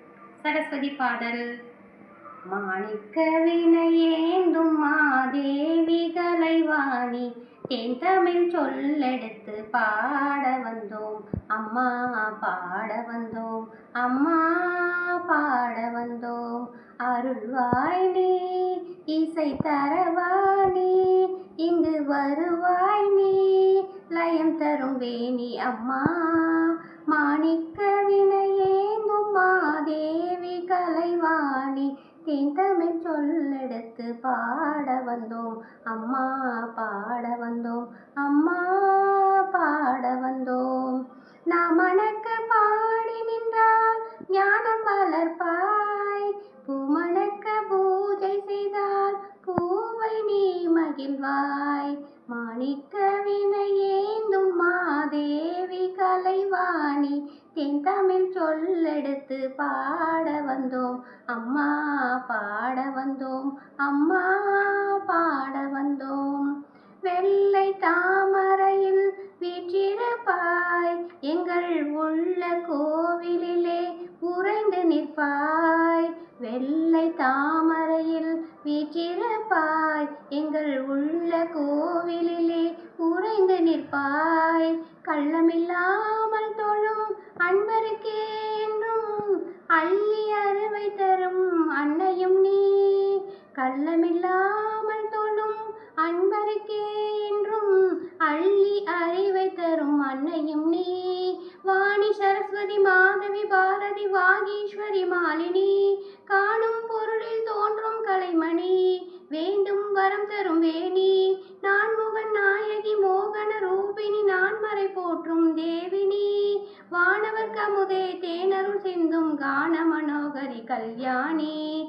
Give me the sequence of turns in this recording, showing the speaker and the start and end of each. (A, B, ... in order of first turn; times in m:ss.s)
0:00.4-0:01.4 A
0:02.5-1:06.5 A
1:07.0-2:01.6 A